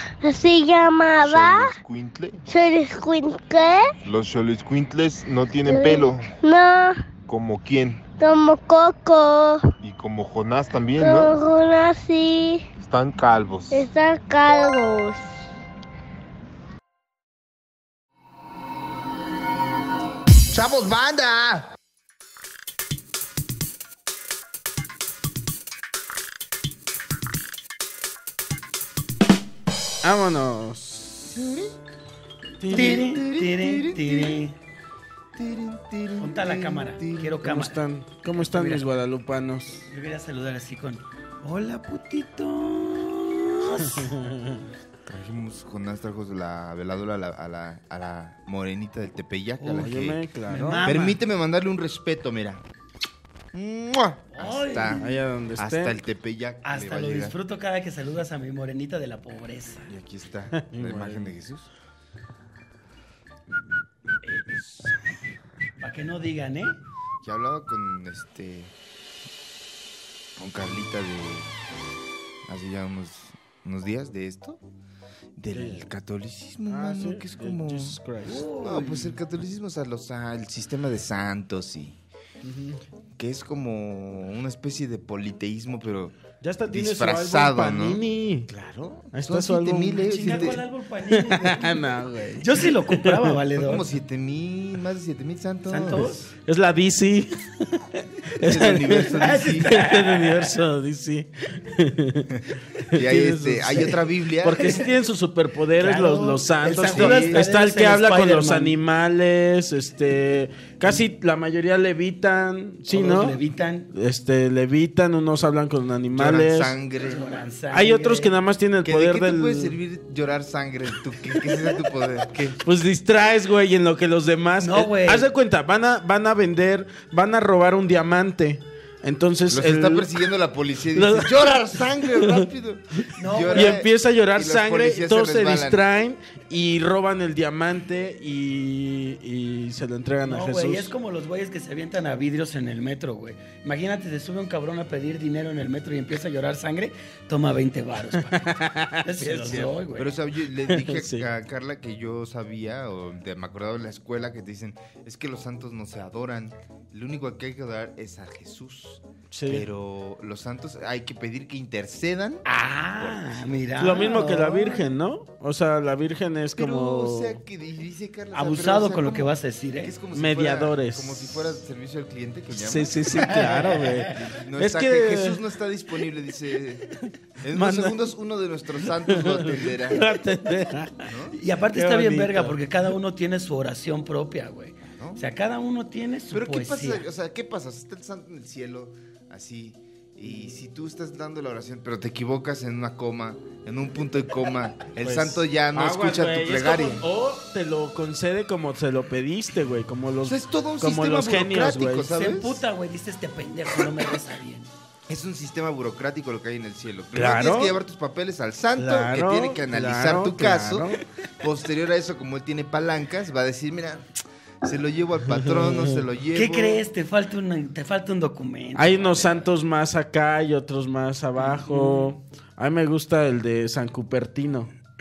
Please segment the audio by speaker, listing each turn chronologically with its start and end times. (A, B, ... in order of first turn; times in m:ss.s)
0:00.2-0:01.7 A
0:01.2-0:02.4 B
0:02.5-0:03.9 A
0:04.0-0:06.3 B
0:05.6-0:07.0 A
0:07.3-0:08.0 B
0:08.2-0:09.6 A
0:09.8-0:11.3 B
0:11.0-0:12.6 A
0:12.8-0:13.8 B
0:13.7-0:15.2 A
0:20.5-0:21.7 C
0:30.0-0:31.4 D
0:31.2-0:31.7 C
0:32.6-0:33.1 D
0:32.7-0:34.4 C
0:32.7-0:34.5 E
0:35.4-0:37.4 C
0:36.2-0:37.8 E
0:37.4-0:39.8 D
0:38.4-0:38.8 E
0:39.9-0:44.1 E
0:44.1-0:44.6 D
0:45.0-0:50.2 C
0:49.6-0:50.9 D
0:50.5-0:51.2 E
0:50.8-0:52.6 C
0:53.5-0:57.3 C
0:54.3-0:55.1 E
0:54.9-0:56.0 D
0:56.6-0:59.9 E
0:59.9-1:01.7 C
1:00.6-1:01.3 D
1:05.8-1:06.8 E
1:07.2-1:08.7 C
1:10.4-1:11.5 C
1:12.4-1:14.6 C
1:15.4-1:18.0 C
1:15.5-1:15.8 D
1:16.7-1:18.4 D
1:18.2-1:19.2 E
1:18.6-1:22.0 C
1:22.4-1:22.8 D
1:23.2-1:26.2 C
1:26.4-1:28.5 D
1:26.7-1:30.6 C
1:29.1-1:30.6 D
1:30.0-1:33.8 E
1:31.1-1:33.4 D
1:33.6-1:36.1 C
1:35.7-1:36.3 E
1:35.9-1:53.4 D
1:38.4-1:39.7 C
1:39.2-1:40.5 E
1:42.9-1:44.7 C
1:44.6-1:44.8 E
1:45.8-1:48.7 E
1:46.8-1:47.4 C
1:52.9-1:53.9 E
1:53.9-1:56.8 D
1:56.1-1:57.2 C
1:57.0-1:58.4 E
1:57.7-1:59.8 D
1:58.8-2:02.6 C
2:02.6-2:10.1 D
2:04.6-2:05.3 E
2:09.5-2:15.8 C
2:10.9-2:12.5 D
2:13.1-2:13.8 E
2:13.5-2:20.9 D
2:20.2-2:30.1 E
2:28.2-2:29.7 D
2:29.9-2:42.4 C
2:30.7-2:31.3 D
2:39.3-2:39.6 D
2:42.4-2:44.8 E
2:43.0-2:43.4 C
2:43.8-2:47.4 D
2:46.6-2:53.4 C
2:48.3-2:49.9 E
2:50.1-2:51.5 D
2:52.5-2:55.4 D
2:53.1-2:54.1 E
2:54.1-3:00.0 C
2:57.5-2:58.0 D
2:59.0-3:01.1 D
3:01.0-3:01.4 C
3:01.3-3:07.0 E
3:01.7-3:02.6 D
3:04.9-3:05.2 C
3:06.3-3:17.0 C
3:15.0-3:22.1 D
3:20.2-3:22.6 C
3:22.1-3:24.7 E
3:25.1-3:34.1 C
3:27.1-3:27.8 D
3:28.8-3:31.0 D
3:34.6-3:36.8 C
3:35.3-3:36.0 D
3:36.3-3:39.5 E
3:38.7-3:44.7 D
3:41.4-3:42.1 E